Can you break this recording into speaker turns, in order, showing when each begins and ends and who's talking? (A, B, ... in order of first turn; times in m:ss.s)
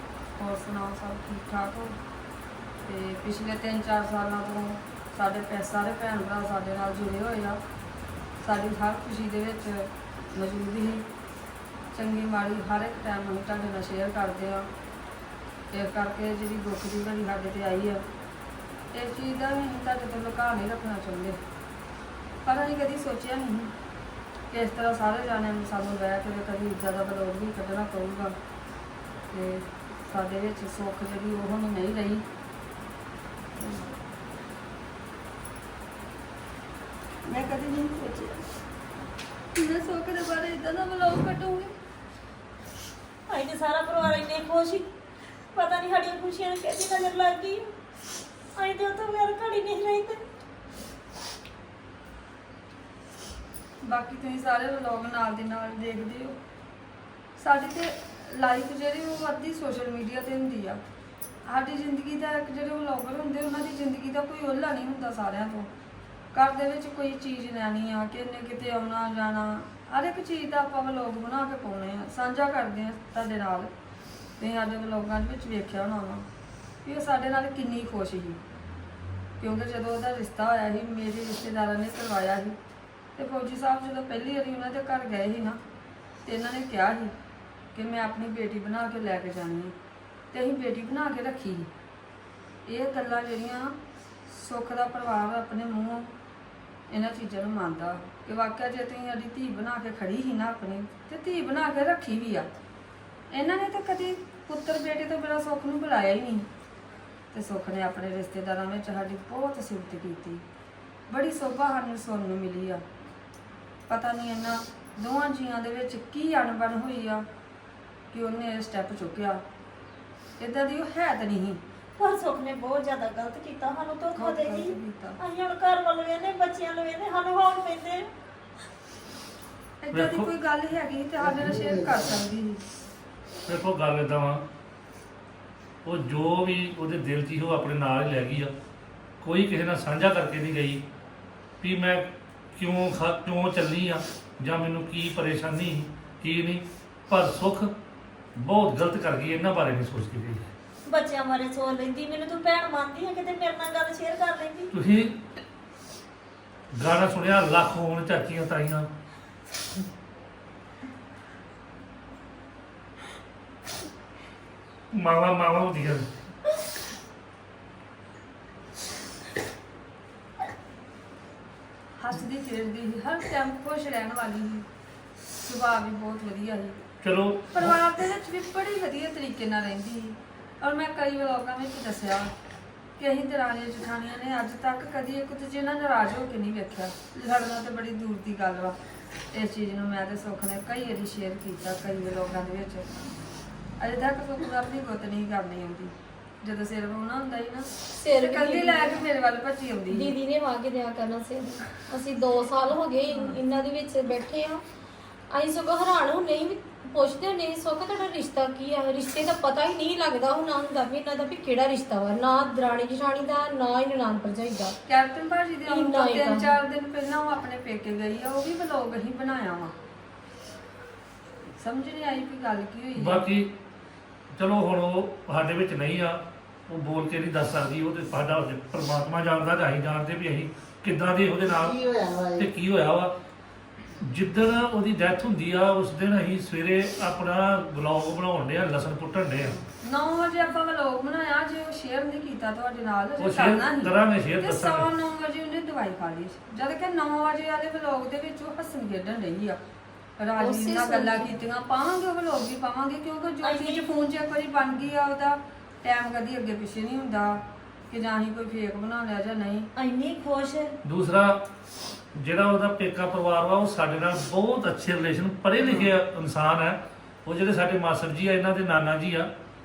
0:00.4-0:02.0 A
0:02.8-0:07.6 A
0:08.4-0:11.0 A
0:11.9-0:14.7 A
0:15.7-0:18.0 A
0:18.9-0:21.4 A
0:22.4-0:23.7 A
0:24.5-0:28.4 A
0:29.3-0:32.2 A
0:33.6-0:33.9 A
0:37.2-0:38.4 A
0:39.6-0:41.7 A
0:43.3-0:44.9 B
0:45.5-0:47.6 B
0:48.6-0:50.2 B
0:53.8-0:56.4 A
0:57.4-1:00.8 A
1:01.5-1:05.7 A
1:06.3-1:13.7 A
1:14.4-1:16.3 A
1:16.8-1:18.4 A
1:19.4-1:22.6 A
1:23.2-1:25.6 A
1:26.2-1:27.1 A
1:27.7-1:29.8 A
1:30.3-1:31.7 A
1:32.7-1:36.1 A
1:36.9-1:42.5 A
1:43.3-1:46.5 A
1:47.3-1:50.4 A
1:51.1-1:52.8 A
1:53.9-1:57.2 A
1:58.1-1:59.4 A
2:00.4-2:01.6 A
2:02.0-2:08.1 B
2:04.2-2:05.2 A
2:09.8-2:12.6 A
2:09.9-2:10.3 C
2:11.2-2:12.2 D
2:13.5-2:14.4 C
2:15.8-2:18.5 C
2:19.2-2:20.8 C
2:21.6-2:27.7 C
2:28.4-2:30.4 C
2:30.9-2:34.7 B
2:34.7-2:35.2 C
2:36.7-2:38.9 C
2:44.9-2:46.1 C
2:52.0-2:54.7 A
2:55.4-2:56.8 A
2:57.0-2:57.8 C
2:57.5-3:02.3 A
3:03.0-3:08.8 A
3:09.3-3:12.9 A
3:13.8-3:20.1 A
3:18.0-3:19.0 E
3:19.9-3:24.6 E
3:23.1-3:23.4 A
3:25.3-3:34.8 E
3:34.9-3:39.7 A
3:35.7-3:36.6 E
3:41.6-3:43.2 A
3:43.0-3:43.5 C
3:44.3-3:51.8 C
3:51.4-3:52.5 D
3:52.4-3:53.1 C
3:54.0-3:59.6 C
3:59.8-4:09.6 A
4:03.2-4:04.9 C
4:10.2-4:17.4 A
4:10.4-4:11.3 E
4:13.4-4:13.9 B
4:17.9-4:19.7 A
4:19.8-4:20.7 B
4:20.8-4:21.4 C
4:22.2-4:29.3 C
4:25.6-4:25.9 A